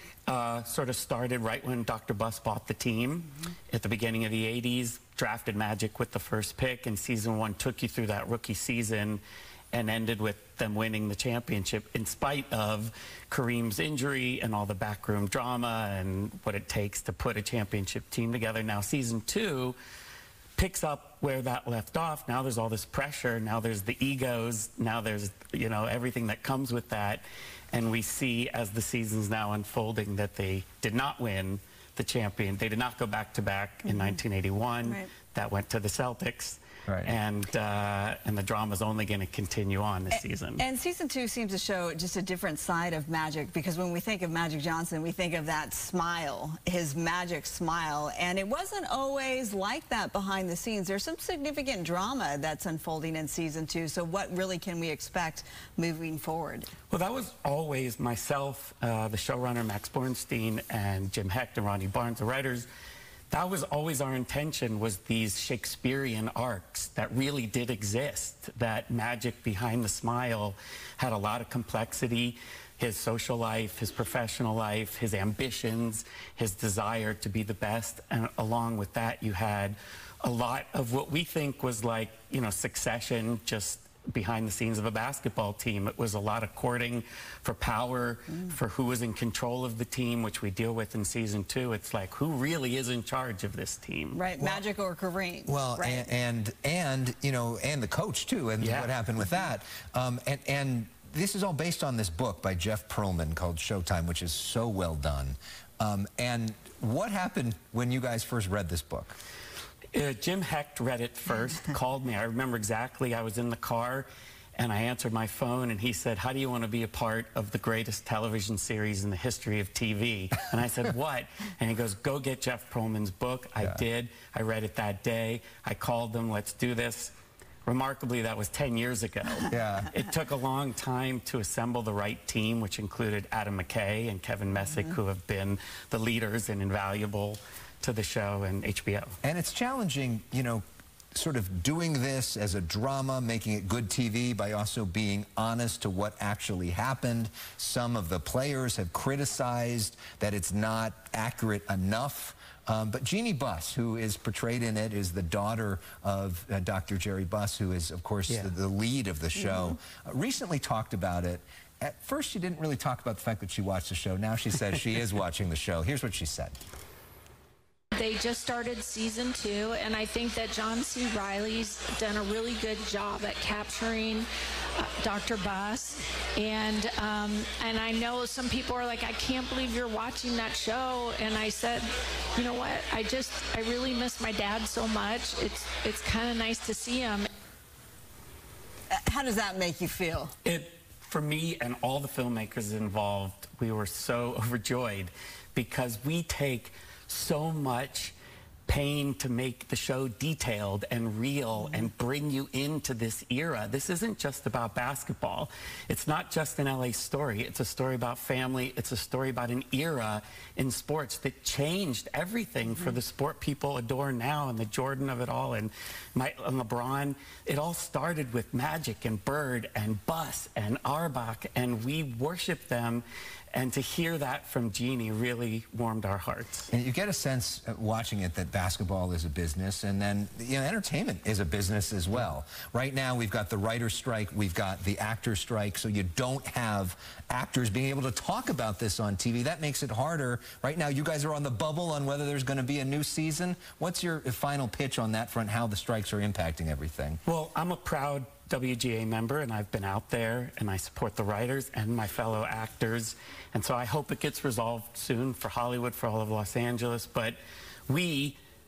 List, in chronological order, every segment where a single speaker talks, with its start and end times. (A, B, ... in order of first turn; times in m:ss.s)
0:00.3-0:09.2 A
0:09.7-0:19.8 A
0:20.6-0:40.6 A
0:33.8-0:34.2 B
0:40.6-0:56.7 B
0:56.9-1:02.7 A
1:03.3-1:34.2 A
1:34.2-1:36.1 B
1:35.5-1:49.2 C
1:38.6-1:38.9 A
1:49.9-2:07.1 A
2:07.7-2:19.2 A
2:09.5-2:09.9 C
2:19.2-2:20.6 C
2:21.2-2:46.6 C
2:47.9-3:07.3 D
3:08.9-3:10.3 B
3:10.4-3:18.2 A
3:18.7-3:46.7 A
3:46.7-4:07.2 C
4:07.3-4:18.4 A